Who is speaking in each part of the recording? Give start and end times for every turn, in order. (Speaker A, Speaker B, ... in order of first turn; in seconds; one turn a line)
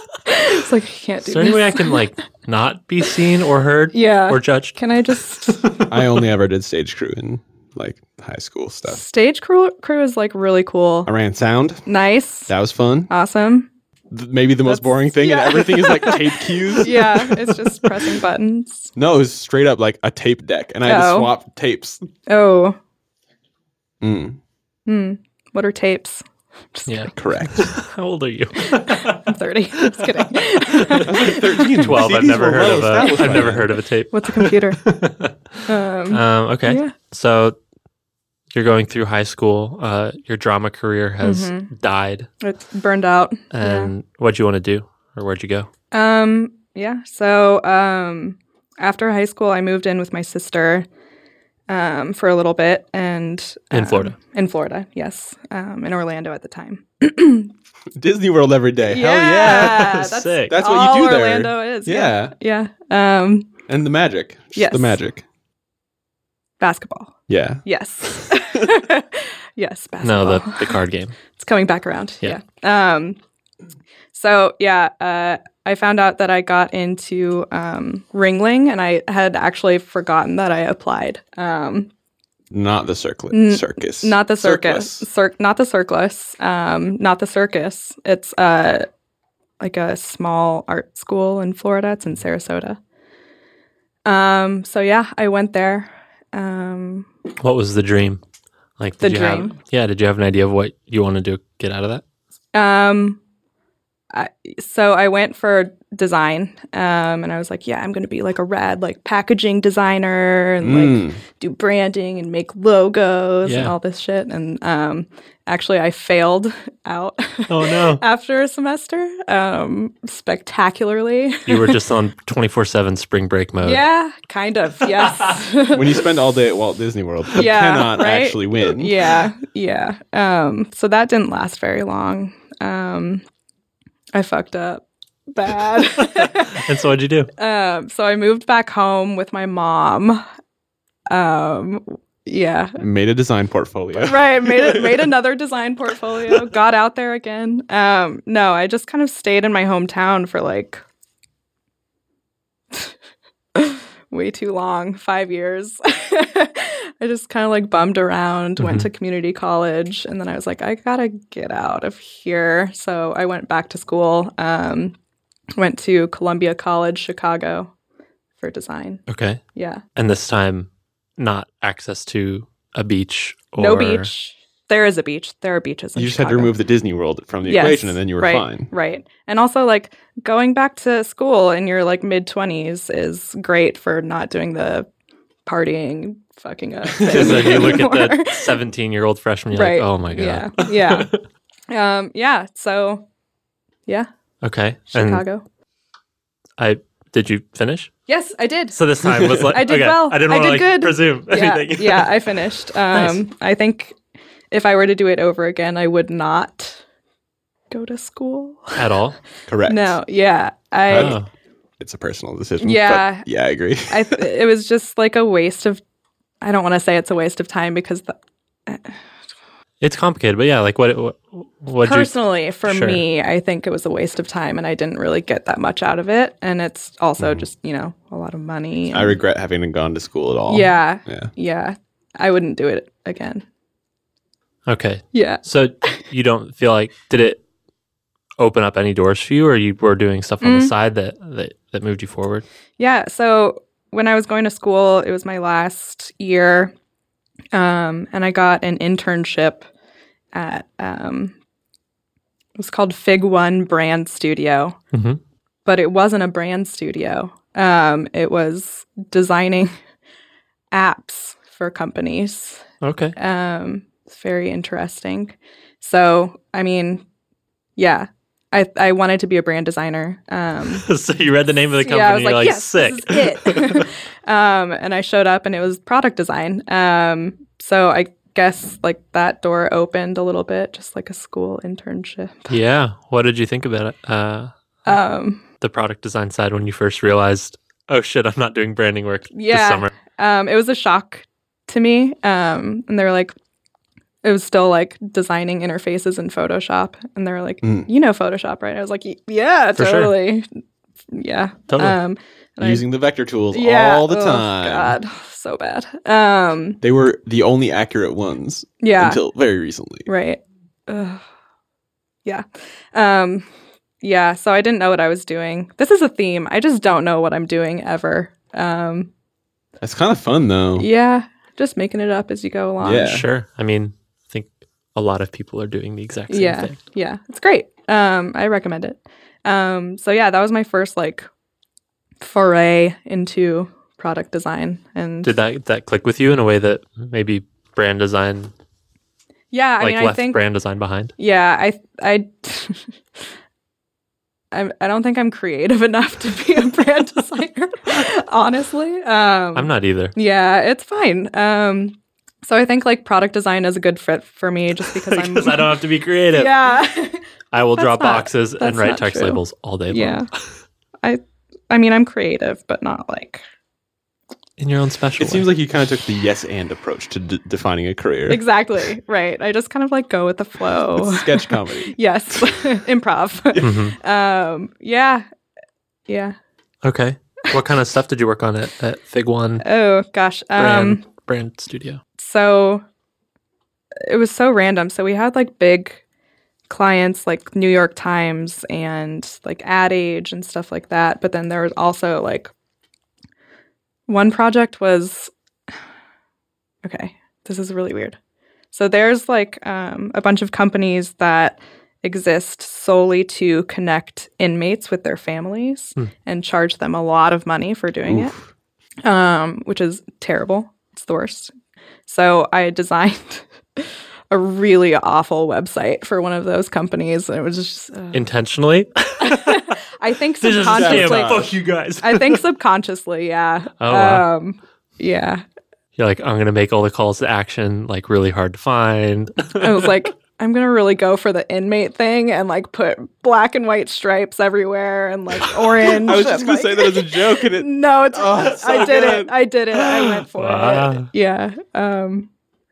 Speaker A: 0.3-2.0
Speaker B: 1.2-4.8
Speaker A: 3.9-5.6
Speaker B: 5.5-6.1
Speaker C: 5.9-9.0
Speaker A: 8.9-11.1
Speaker C: 11.1-11.9
Speaker A: 11.9-12.5
Speaker C: 12.5-13.1
Speaker A: 13.1-13.7
Speaker C: 14.1-17.4
Speaker A: 14.7-18.9
Speaker C: 19.0-22.1
Speaker A: 20.9-21.3
Speaker A: 22.3-22.8
Speaker C: 24.0-24.4
Speaker A: 24.9-27.1
Speaker B: 26.9-31.1
Speaker C: 27.1-27.7
Speaker A: 28.6-31.9
Speaker C: 31.0-33.7
Speaker B: 31.7-35.4
Speaker A: 33.0-33.5
Speaker A: 34.1-34.8
Speaker A: 35.7-37.0
Speaker B: 36.1-37.6
Speaker B: 38.5-42.3
Speaker A: 41.2-41.7
Speaker A: 42.4-43.9
Speaker B: 43.5-45.7
Speaker A: 45.9-50.9
Speaker A: 51.7-57.5
Speaker B: 53.7-54.1
Speaker C: 57.9-62.3
Speaker A: 58.9-63.5
Speaker B: 59.4-60.5
Speaker C: 63.7-65.2
Speaker A: 64.5-65.0
Speaker A: 66.6-70.8
Speaker C: 67.3-68.4
Speaker B: 70.0-71.2
Speaker A: 71.3-73.2
Speaker A: 74.1-81.9
Speaker C: 82.5-85.1
Speaker A: 83.3-88.9
Speaker A: 89.6-92.8
Speaker A: 94.1-97.1
Speaker B: 97.4-98.2
Speaker B: 98.8-102.0
Speaker A: 99.0-99.5
Speaker A: 102.5-103.2
Speaker A: 104.1-121.8
Speaker C: 110.6-111.2
Speaker B: 113.5-113.8
Speaker B: 117.5-118.0
Speaker B: 121.5-123.8
Speaker A: 123.6-126.1
Speaker B: 125.0-125.3
Speaker C: 125.7-129.2
Speaker A: 127.4-133.2
Speaker A: 134.1-136.7
Speaker B: 136.2-137.3
Speaker A: 137.4-140.2
Speaker A: 141.1-142.8
Speaker C: 142.8-145.1
Speaker A: 144.0-150.8
Speaker A: 153.6-164.9
Speaker B: 158.6-158.9
Speaker A: 165.6-167.7
Speaker A: 168.4-169.0
Speaker B: 169.1-169.4
Speaker A: 169.6-169.8
Speaker B: 170.0-174.1
Speaker A: 173.6-176.5
Speaker C: 175.9-178.7
Speaker A: 177.4-184.9
Speaker A: 185.5-188.6
Speaker C: 186.9-187.8
Speaker B: 187.1-191.2
Speaker A: 189.5-191.1
Speaker A: 191.7-193.0
Speaker B: 194.4-195.2
Speaker A: 194.9-195.4
Speaker B: 196.6-197.9
Speaker A: 198.1-204.0
Speaker B: 198.7-202.3
Speaker B: 202.9-203.2
Speaker A: 204.5-206.8
Speaker A: 207.7-208.8
Speaker B: 208.8-209.2
Speaker C: 209.5-210.0
Speaker A: 209.7-211.2
Speaker C: 210.9-211.2
Speaker B: 210.9-211.3
Speaker C: 211.8-214.2
Speaker A: 212.6-213.3
Speaker A: 213.9-215.8
Speaker A: 216.4-218.2
Speaker A: 218.7-219.0
Speaker B: 219.8-223.0
Speaker A: 221.8-229.2
Speaker C: 227.2-227.5
Speaker C: 228.9-231.3
Speaker A: 230.5-233.4
Speaker B: 234.7-237.4
Speaker A: 235.1-235.4
Speaker B: 238.4-242.4
Speaker A: 240.4-240.7
Speaker A: 242.8-246.7
Speaker A: 247.5-249.7
Speaker A: 250.3-251.3
Speaker A: 252.6-254.8
Speaker B: 254.9-255.2
Speaker A: 255.7-259.7
Speaker A: 260.7-267.0
Speaker B: 262.8-263.1
Speaker A: 267.8-270.9
Speaker B: 270.8-273.9
Speaker A: 271.8-282.6
Speaker B: 282.5-284.5
Speaker A: 284.9-285.4
Speaker B: 285.6-289.9
Speaker A: 289.3-293.3
Speaker A: 294.2-300.6
Speaker C: 297.6-297.9
Speaker B: 299.8-300.1
Speaker A: 301.1-302.9
Speaker B: 301.7-302.0
Speaker C: 302.6-305.0
Speaker A: 303.5-306.8
Speaker C: 306.8-310.1
Speaker A: 308.8-309.2
Speaker A: 310.1-311.2
Speaker A: 312.2-313.5
Speaker A: 314.0-319.1
Speaker C: 319.8-320.9
Speaker A: 320.8-323.2
Speaker C: 322.8-323.3
Speaker B: 323.0-326.8
Speaker A: 326.3-331.3
Speaker A: 332.2-335.3
Speaker B: 335.2-338.5
Speaker A: 339.5-340.4
Speaker B: 339.8-341.1
Speaker A: 341.2-343.0
Speaker A: 344.5-355.8
Speaker B: 349.6-350.1
Speaker B: 354.9-356.6
Speaker A: 356.3-357.2
Speaker B: 357.5-360.3
Speaker A: 357.8-360.3
Speaker A: 361.0-363.4
Speaker B: 364.6-365.5
Speaker C: 365.2-368.4
Speaker A: 368.3-375.3
Speaker C: 371.0-372.6
Speaker B: 373.6-374.0
Speaker A: 376.1-376.4
Speaker B: 376.8-379.7
Speaker A: 379.6-381.0
Speaker B: 380.6-382.0
Speaker A: 382.2-382.8
Speaker A: 384.0-386.0
Speaker A: 386.7-392.5
Speaker A: 394.1-395.3
Speaker A: 396.8-398.2
Speaker A: 398.7-408.4
Speaker C: 408.1-408.4
Speaker A: 409.0-411.5
Speaker A: 412.1-418.2
Speaker B: 418.1-419.8
Speaker A: 419.2-421.5
Speaker B: 420.4-422.5
Speaker C: 420.6-421.5
Speaker A: 422.0-425.4
Speaker B: 423.8-424.3
Speaker B: 426.0-429.9
Speaker A: 429.6-442.3
Speaker C: 435.8-439.3
Speaker B: 440.3-441.1